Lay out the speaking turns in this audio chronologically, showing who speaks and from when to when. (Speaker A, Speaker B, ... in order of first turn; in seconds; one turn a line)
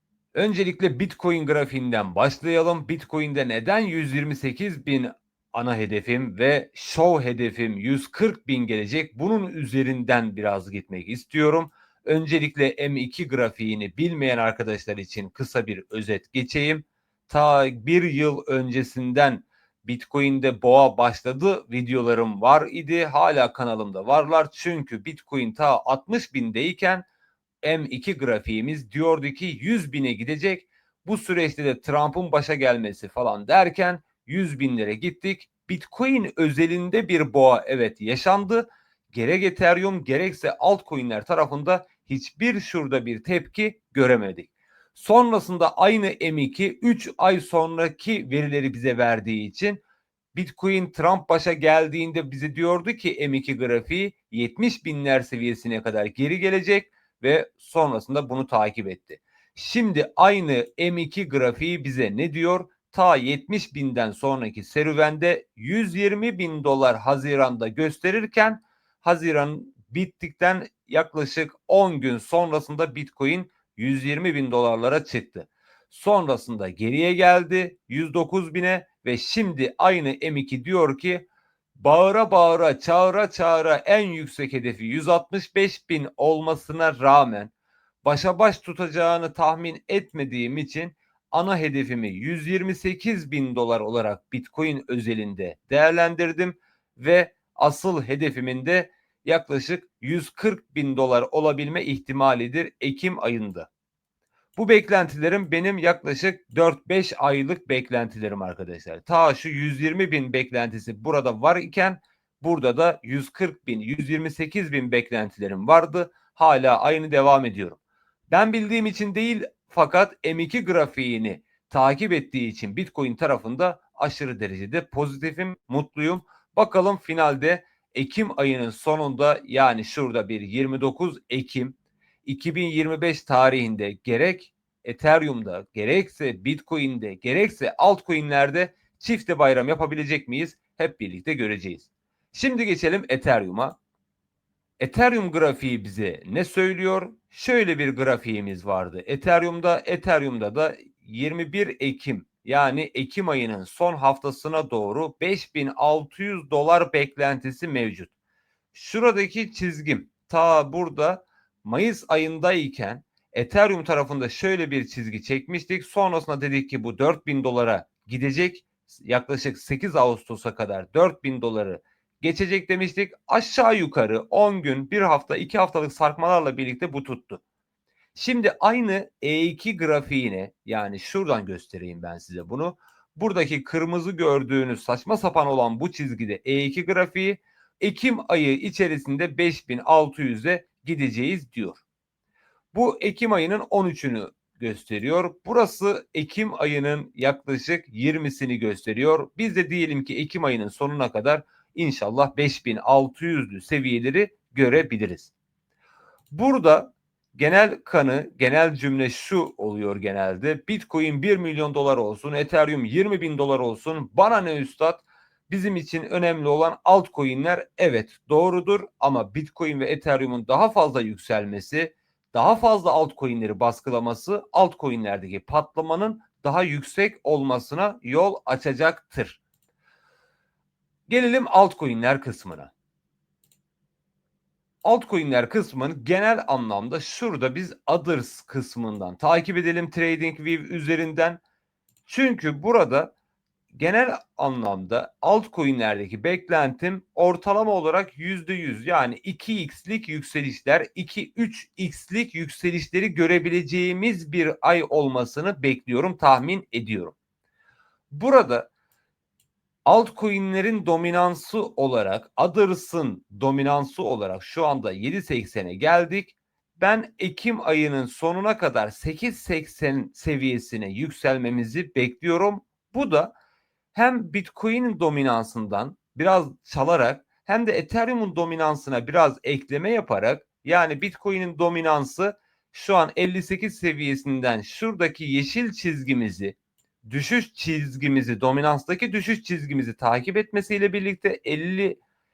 Speaker A: 0.3-27.1
Speaker A: 27.6-49.8
Speaker A: 50.3-87.5
Speaker A: 88.0-103.7
Speaker A: 104.6-117.8
Speaker A: 118.3-143.8
Speaker A: 144.8-158.1
Speaker A: 158.7-177.4
Speaker A: 178.2-191.8
Speaker A: 192.7-205.3
Speaker A: 206.3-229.4
Speaker A: 231.1-232.7
Speaker A: 234.8-241.4
Speaker A: 242.1-243.1
Speaker A: 243.7-257.2
Speaker A: 258.1-258.7
Speaker A: 259.9-273.3
Speaker A: 273.9-286.6
Speaker A: 287.1-292.0